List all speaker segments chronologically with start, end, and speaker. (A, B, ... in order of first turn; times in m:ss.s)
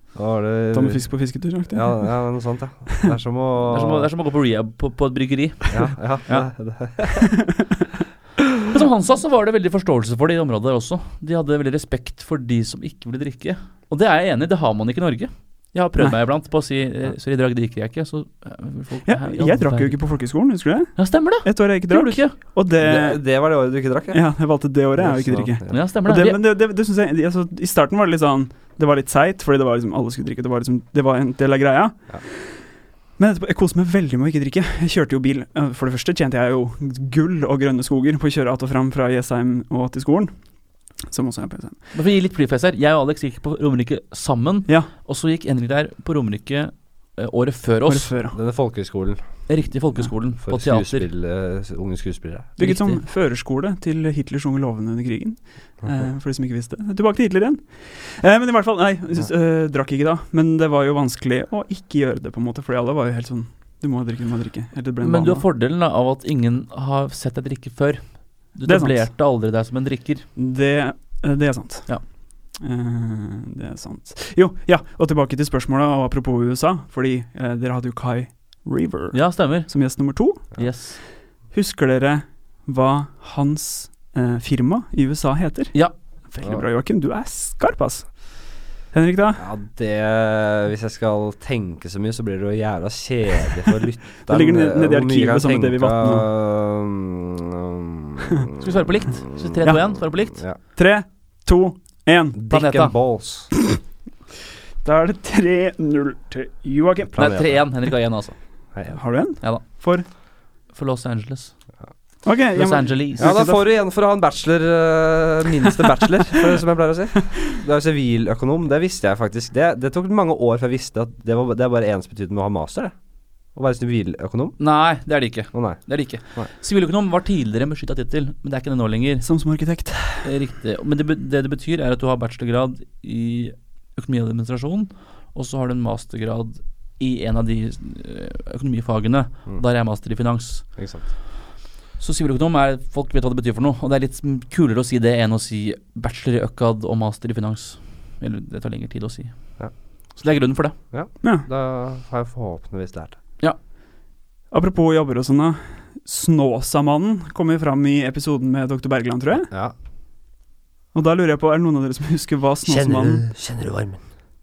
0:00.2-0:01.1 A
0:00.7-0:02.2 B
0:01.7-0:04.1 A
0:03.6-0:06.5 C
0:05.7-0:07.3 A
0:07.4-0:07.6 B
0:08.7-0:20.0 C
0:19.1-0:23.2 B
0:21.0-0:22.4 C
0:22.8-0:24.2 A
0:24.1-0:32.6 B
0:25.0-0:25.8 A
0:25.7-0:26.4 C
0:33.2-0:40.3 B
0:41.1-0:41.8 B
0:41.9-0:48.1 C
0:47.9-0:48.4 B
0:48.3-0:49.2 A
0:49.5-0:51.0 C
0:50.4-0:52.5 A
0:52.6-1:05.4 B
0:52.6-0:53.0 C
1:05.0-1:10.2 C
1:08.7-1:09.1 B
1:10.4-1:12.0 B
1:12.6-1:20.6 B
1:19.1-1:19.7 C
1:20.6-1:21.0 C
1:21.5-1:25.8 B
1:26.3-1:28.1 B
1:28.9-1:29.4 B
1:29.4-1:40.6 A
1:34.2-1:36.2 B
1:38.6-1:40.4 C
1:39.6-1:39.9 B
1:40.6-1:42.4 B
1:42.4-1:43.5 A
1:42.5-1:42.9 C
1:44.8-1:47.3 B
1:47.1-1:47.6 A
1:47.2-1:48.4 C
1:48.9-1:50.0 B
1:50.7-1:51.5 C
1:52.2-1:53.6 B
1:52.6-1:53.4 C
1:53.2-2:02.9 A
2:03.6-2:04.6 A
2:04.6-2:09.2 C
2:05.5-2:06.5 A
2:09.2-2:10.3 B
2:10.2-2:20.7 C
2:20.8-2:21.1 A
2:22.0-2:29.4 C
2:30.2-2:30.8 C
2:30.9-2:33.2 A
2:34.5-2:39.5 B
2:40.9-2:43.3 B
2:42.7-2:44.0 A